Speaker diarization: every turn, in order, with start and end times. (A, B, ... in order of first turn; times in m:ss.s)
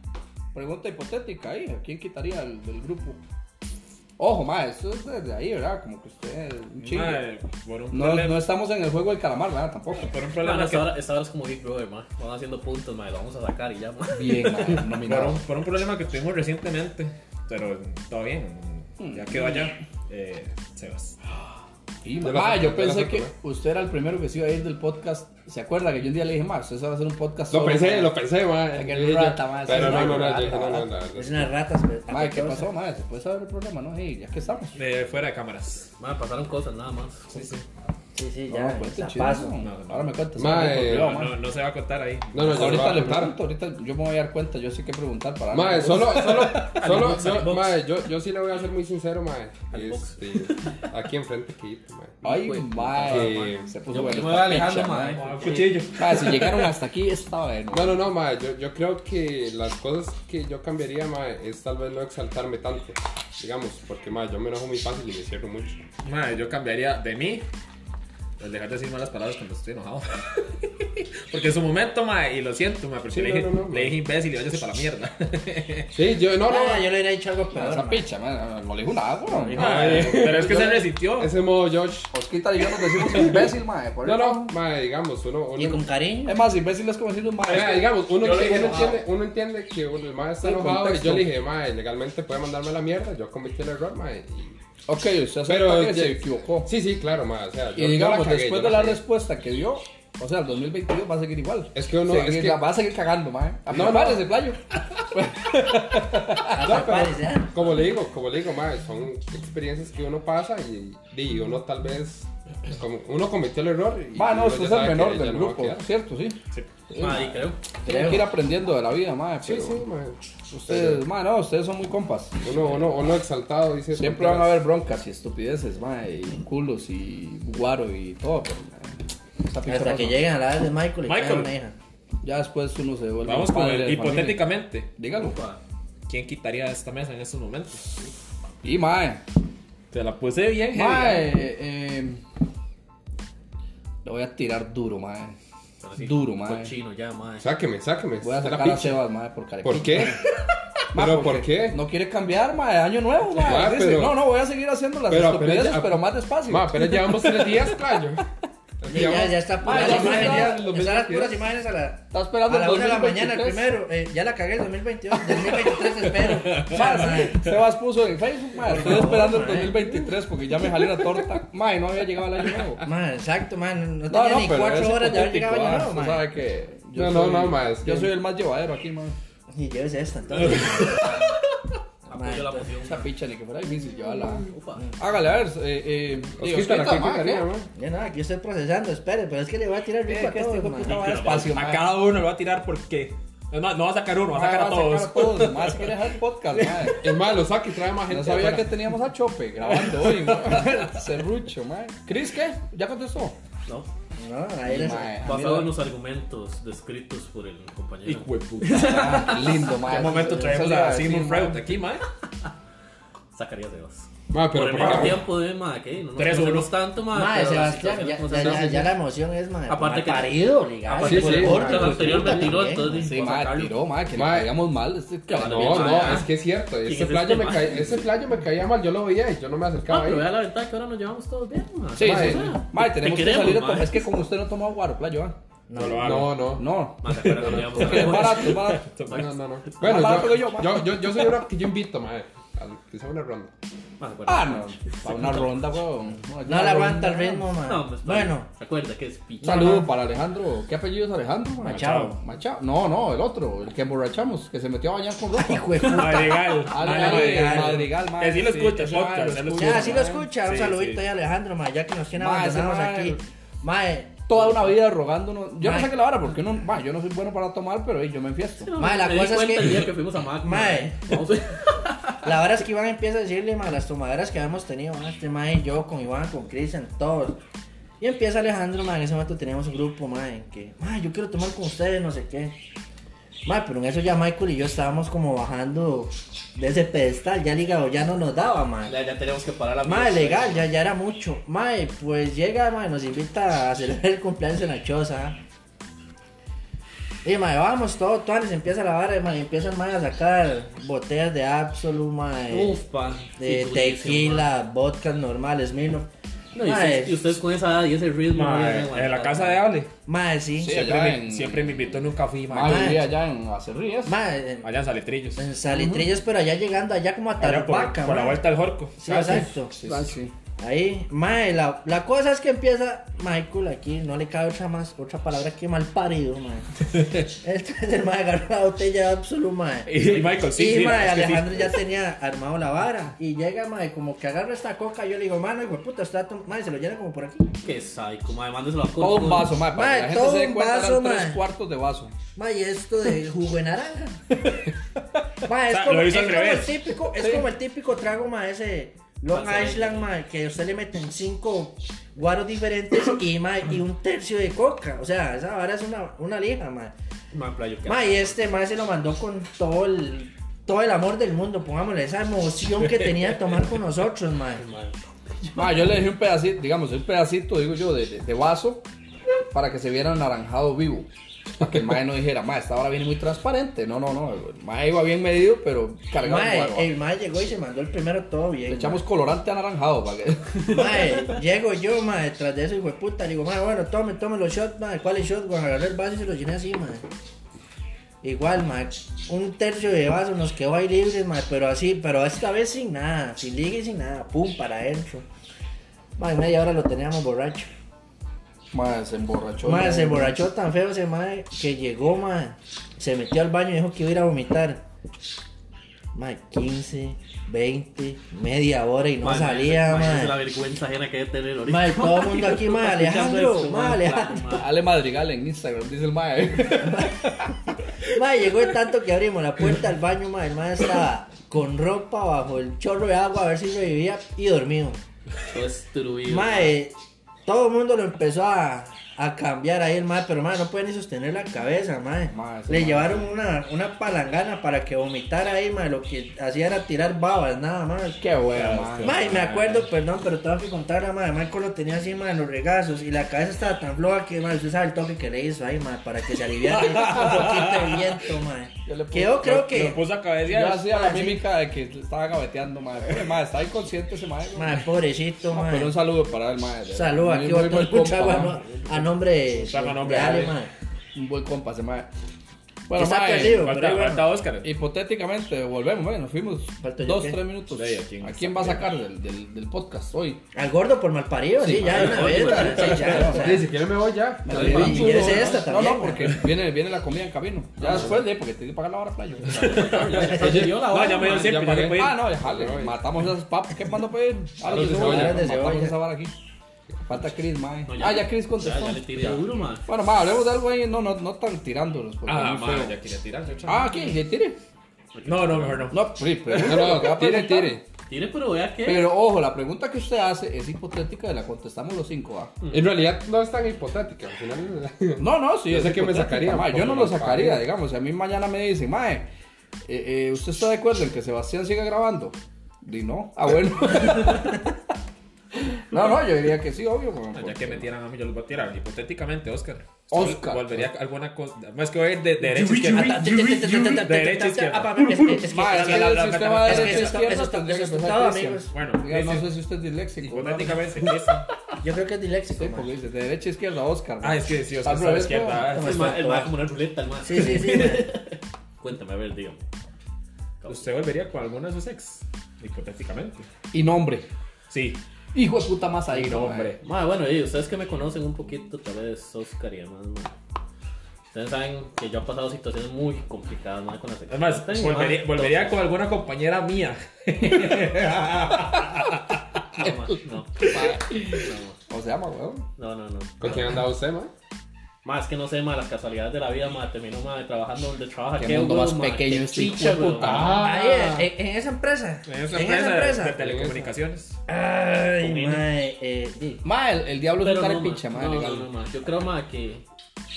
0:00.5-0:03.2 A
0:04.2-0:07.2 A
0:06.8-0:08.4 B
0:07.9-0:10.1 A
0:10.0-0:10.9 B
0:10.4-0:14.8 C
0:14.1-0:15.4 A
0:14.8-0:21.2 B
0:19.0-0:19.8 A
0:22.0-0:28.2 A
0:22.2-0:23.3 D
0:27.5-0:31.5 D
0:28.7-0:30.9 A
0:29.8-0:30.3 E
0:31.2-0:32.7 E
0:32.1-0:34.8 A
0:34.7-0:35.9 B
0:36.0-0:37.2 C
0:37.3-0:37.6 B
0:38.1-0:39.5 E
0:38.5-0:41.3 A
0:39.6-0:43.0 B
0:40.4-0:41.2 D
0:42.3-0:43.4 D
0:42.4-0:46.6 A
0:45.5-0:52.2 D
0:46.1-0:47.7 C
0:47.1-0:47.4 B
0:49.7-0:50.7 C
0:52.2-0:55.2 A
0:52.3-0:53.4 C
0:53.0-0:53.7 D
0:53.9-0:55.8 C
0:55.1-0:56.7 B
0:55.9-0:58.0 A
0:57.7-1:05.8 D
1:06.0-1:07.4 B
1:08.4-1:15.9 B
1:13.1-1:14.0 D
1:15.9-1:16.9 D
1:16.4-1:18.0 E
1:17.5-1:20.8 A
1:19.4-1:22.1 D
1:19.5-1:21.3 B
1:22.1-1:24.5 A
1:22.8-1:23.5 D
1:24.0-1:25.8 D
1:25.6-1:26.4 E
1:26.2-1:28.9 A
1:27.4-1:34.6 D
1:28.2-1:29.0 B
1:30.4-1:31.3 A
1:34.9-1:36.7 A
1:35.5-1:39.0 D
1:37.7-1:46.9 A
1:41.7-1:42.6 D
1:43.7-1:44.3 D
1:46.4-1:55.8 D
1:46.5-1:47.5 E
1:54.1-1:56.4 A
1:56.9-1:57.2 A
1:57.0-1:57.6 C
1:57.8-1:58.3 E
1:57.8-1:59.8 A
1:59.4-2:01.0 D
2:00.6-2:03.1 A
2:02.4-2:04.6 D
2:03.9-2:10.2 A
2:09.7-2:11.8 E
2:11.0-2:11.5 B
2:12.2-2:15.4 A
2:13.2-2:14.9 B
2:15.1-2:15.6 C
2:16.1-2:17.8 B
2:18.6-2:19.2 A
2:19.9-2:21.3 B
2:20.7-2:22.2 A
2:24.0-2:25.4 A
2:25.8-2:27.5 C
2:26.0-2:26.7 A
2:27.4-2:29.0 D
2:28.2-2:30.2 A
2:29.6-2:30.2 D
2:30.9-2:37.7 A
2:30.9-2:31.8 D
2:33.3-2:34.2 D
2:35.1-2:38.2 D
2:38.8-2:41.4 D
2:38.9-2:47.5 E
2:39.6-2:40.7 A
2:42.1-2:43.8 A
2:45.3-2:45.7 A
2:46.2-2:46.8 B
2:46.6-2:52.8 A
2:48.6-2:49.8 E
2:52.8-2:56.2 E
2:54.1-2:59.2 A
2:56.9-2:58.1 D
2:59.5-3:01.1 E
3:02.1-3:02.7 E
3:02.1-3:03.0 C
3:02.8-3:07.5 A
3:04.5-3:04.8 C
3:06.4-3:07.7 D
3:07.7-3:11.3 E
3:10.1-3:12.0 A
3:10.8-3:15.9 B
3:14.3-3:17.1 A
3:17.0-3:18.7 D
3:18.1-3:23.4 A
3:24.2-3:25.4 E
3:24.6-3:25.7 A
3:25.2-3:29.8 C
3:28.0-3:32.0 B
3:28.7-3:31.6 A
3:33.3-3:38.9 C
3:34.3-3:35.2 D
3:34.8-3:35.2 A
3:36.2-3:36.8 B
3:37.1-3:43.1 E
3:39.7-3:43.8 C
3:41.0-3:41.9 D
3:41.1-3:46.2 A
3:44.1-3:44.5 D
3:45.3-3:48.0 C
3:45.4-3:50.3 D
3:49.9-3:54.1 C
3:52.0-3:55.4 A
3:52.0-3:52.6 D
3:55.7-3:56.2 E
3:55.7-3:56.5 B
3:56.0-3:56.6 D
3:56.6-3:58.9 A
3:57.0-3:58.6 C
3:57.1-3:59.3 B
3:59.1-4:03.5 D
3:59.8-4:01.0 A
4:04.0-4:05.6 C
4:04.2-4:07.5 A
4:06.4-4:08.5 E
4:07.6-4:09.8 C
4:09.4-4:16.0 A
4:09.5-4:09.8 E
4:11.6-4:12.2 B
4:15.3-4:17.9 E
4:15.8-4:21.0 B
4:16.7-4:20.2 A
4:19.6-4:24.8 E
4:22.1-4:23.2 A
4:24.3-4:28.7 A
4:25.6-4:25.9 E
4:28.6-4:32.2 C
4:28.8-4:31.2 E
4:32.2-4:37.4 E
4:38.0-4:42.5 E
4:43.4-4:48.9 E
4:48.9-4:50.7 C
4:49.8-4:55.4 E
4:57.2-5:02.8 E
5:02.5-5:04.5 C
5:03.4-5:06.1 E
5:06.5-5:09.6 C
5:06.6-5:07.2 E
5:08.3-5:09.9 B
5:10.0-5:11.1 E
5:10.6-5:11.9 A
5:10.9-5:13.0 B
5:12.5-5:14.1 A
5:12.6-5:13.0 E
5:14.0-5:14.7 E
5:14.6-5:15.4 B
5:15.4-5:18.4 E
5:17.4-5:20.0 B
5:19.0-5:19.8 E
5:19.1-5:20.3 A
5:20.6-5:26.7 E
5:27.3-5:37.5 E
5:29.9-5:31.7 B
5:37.6-5:39.5 C
5:39.0-5:42.2 A
5:39.7-5:41.4 E
5:42.4-5:44.4 E
5:45.4-5:56.9 E
5:45.7-5:46.9 B
5:49.3-5:50.1 C
5:57.3-5:58.4 C
5:57.8-6:04.6 E
6:05.6-6:08.8 A
6:09.5-6:16.9 A
6:16.2-6:19.0 E
6:18.7-6:21.2 A
6:20.6-6:27.0 E
6:28.2-6:35.2 E
6:36.2-6:37.7 E
6:38.7-6:40.4 A
6:39.6-6:44.8 E
6:46.1-6:50.4 E
6:49.2-6:54.7 C
6:51.7-6:54.5 E
6:54.5-6:57.5 A
6:56.7-6:57.4 E
6:58.1-7:05.0 E
7:05.5-7:06.7 C
7:06.3-7:18.2 E
7:12.3-7:13.3 A
7:18.2-7:19.2 A
7:18.5-7:19.9 B
7:19.0-7:30.0 E
7:26.7-7:28.1 B
7:27.0-7:27.4 A
7:28.8-7:34.8 A
7:29.4-7:30.8 B
7:30.8-7:31.4 E
7:34.5-7:36.0 E
7:35.5-7:39.1 A
7:36.9-7:40.7 E
7:39.5-7:40.6 B
7:41.1-7:42.1 A
7:42.9-7:43.7 A
7:42.9-7:44.3 E
7:43.5-7:44.7 B
7:44.6-7:50.4 A
7:46.8-7:47.4 E
7:47.7-7:48.8 B
7:50.5-7:53.7 E
7:51.6-7:53.3 B
7:51.9-7:53.2 C
7:53.0-7:53.5 A
7:53.3-7:55.3 D
7:54.4-7:59.7 A
7:54.5-7:56.3 E
7:55.1-7:55.4 B
7:57.8-7:58.2 D
7:59.5-8:01.6 C
7:59.5-8:02.2 B
8:00.6-8:03.0 D
8:01.9-8:06.3 A
8:04.6-8:06.0 E
8:04.7-8:05.4 D
8:07.0-8:13.0 A
8:07.9-8:09.8 C
8:12.2-8:14.0 B
8:13.6-8:14.6 A
8:15.1-8:15.9 C
8:15.2-8:16.0 B
8:15.9-8:17.8 A
8:16.5-8:17.8 D
8:18.1-8:19.1 C
8:18.8-8:22.5 A
8:22.6-8:22.9 C
8:22.7-8:27.6 D
8:25.2-8:29.3 A
8:29.8-8:34.7 A
8:35.5-8:37.9 A
8:37.3-8:47.3 B
8:40.1-8:40.9 A
8:42.4-8:48.7 E
8:45.5-8:50.8 A
8:48.7-8:49.5 B
8:50.2-8:51.4 B
8:51.8-8:52.9 E
8:52.5-8:55.7 A
8:54.2-8:56.2 B
8:55.7-8:56.6 E
8:55.8-8:59.6 C
8:57.2-8:58.1 E
9:00.6-9:00.9 C
9:00.7-9:03.5 B
9:03.7-9:04.3 A
9:04.7-9:05.0 B
9:05.3-9:06.7 A
9:06.1-9:06.8 B
9:06.8-9:10.3 C
9:11.3-9:15.8 C
9:14.3-9:19.8 B
9:19.8-9:20.7 C
9:20.7-9:21.1 A
9:21.4-9:21.8 C
9:21.9-9:22.7 A
9:22.8-9:23.8 C
9:23.4-9:24.3 D
9:25.0-9:30.6 C
9:28.4-9:30.6 A
9:30.2-9:31.3 B
9:30.3-9:30.9 D
9:30.6-9:33.4 E
9:32.2-9:34.4 B
9:33.4-9:33.9 D
9:34.5-9:36.6 E
9:35.3-9:35.6 B
9:36.6-9:38.7 A
9:37.4-9:39.8 C